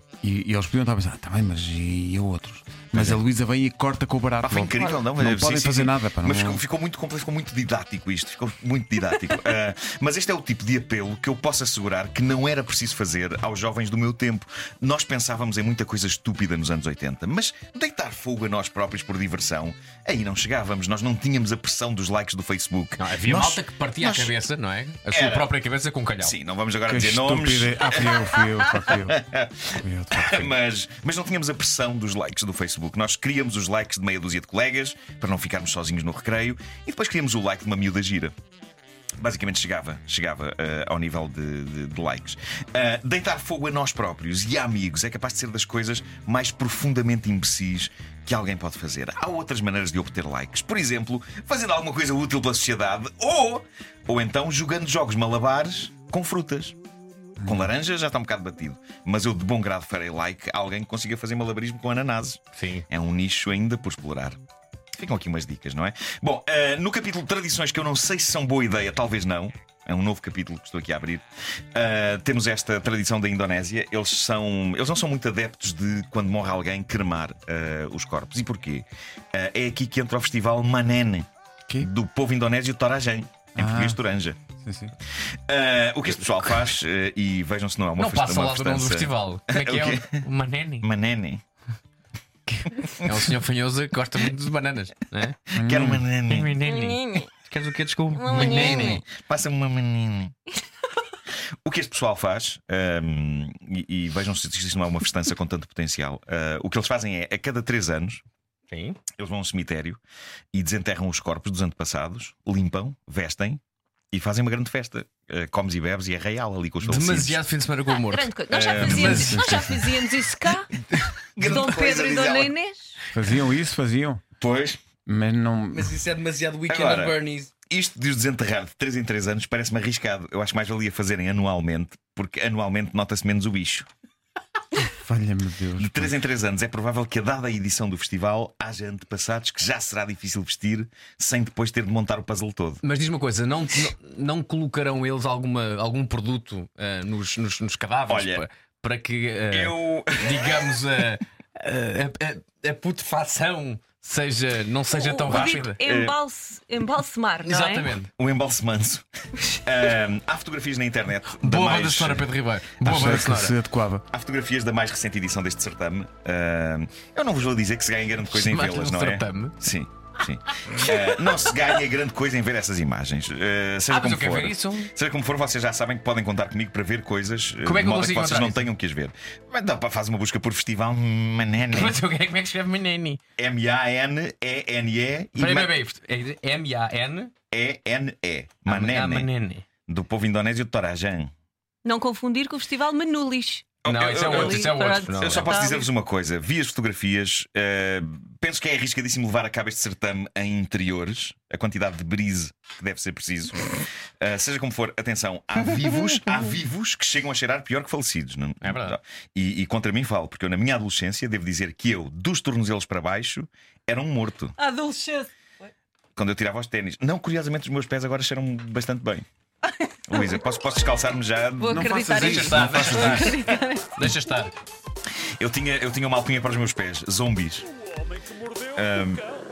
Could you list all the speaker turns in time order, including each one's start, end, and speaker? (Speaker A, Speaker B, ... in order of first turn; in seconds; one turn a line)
Speaker A: 0.2-6.6
Speaker B: 2.9-3.2
Speaker B: 4.4-24.3
Speaker C: 23.0-26.3
Speaker B: 25.1-25.5
Speaker B: 26.2-38.3
Speaker A: 26.9-30.5
Speaker B: 39.2-56.8
Speaker B: 57.4-64.4
Speaker A: 57.4-57.7
Speaker C: 62.5-62.8
Speaker B: 64.9-71.2
Speaker B: 71.7-81.3
Speaker B: 81.8-84.4
Speaker A: 83.6-84.0
Speaker A: 84.6-84.9
Speaker B: 85.5-90.2
Speaker C: 88.0-90.9
Speaker B: 90.8-91.4
Speaker C: 92.5-95.4
Speaker B: 95.5-96.6
Speaker A: 95.5-96.0
Speaker C: 96.3-99.0
Speaker D: 96.6-97.3
Speaker D: 98.2-99.0
Speaker B: 98.3-100.3
Speaker B: 101.6-108.2
Speaker C: 108.7-109.0
Speaker B: 109.2-110.0
Speaker B: 110.5-113.6
Speaker B: 114.1-117.4
Speaker C: 116.8-119.9
Speaker D: 118.0-120.7
Speaker B: 118.5-119.2
Speaker A: 119.1-119.8
Speaker B: 121.3-122.6
Speaker D: 121.4-123.0
Speaker A: 123.1-124.2
Speaker B: 124.4-124.8
Speaker A: 125.0-125.9
Speaker C: 125.7-127.5
Speaker B: 126.7-133.9
Speaker A: 134.9-136.2
Speaker B: 135.8-142.8
Speaker C: 142.8-155.8
Speaker B: 148.1-148.4
Speaker B: 149.5-150.9
Speaker D: 154.9-157.9
Speaker B: 155.3-156.2
Speaker C: 157.4-158.1
Speaker B: 158.2-162.3
Speaker C: 161.2-163.6
Speaker A: 162.8-164.0
Speaker B: 164.1-182.0
Speaker C: 168.3-169.6
Speaker C: 170.6-171.0
Speaker C: 173.9-174.9
Speaker C: 177.6-178.7
Speaker C: 181.7-183.2
Speaker B: 183.4-185.8
Speaker C: 185.3-187.3
Speaker B: 187.5-189.3
Speaker C: 188.7-189.6
Speaker B: 189.9-191.3
Speaker D: 191.8-195.9
Speaker B: 193.8-214.6
Speaker C: 193.8-195.7
Speaker C: 208.6-209.0
Speaker D: 214.6-215.3
Speaker B: 216.2-219.2
Speaker B: 220.1-222.0
Speaker D: 221.6-224.2
Speaker A: 221.7-223.4
Speaker C: 222.0-224.5
Speaker B: 225.4-227.7
Speaker B: 228.7-229.3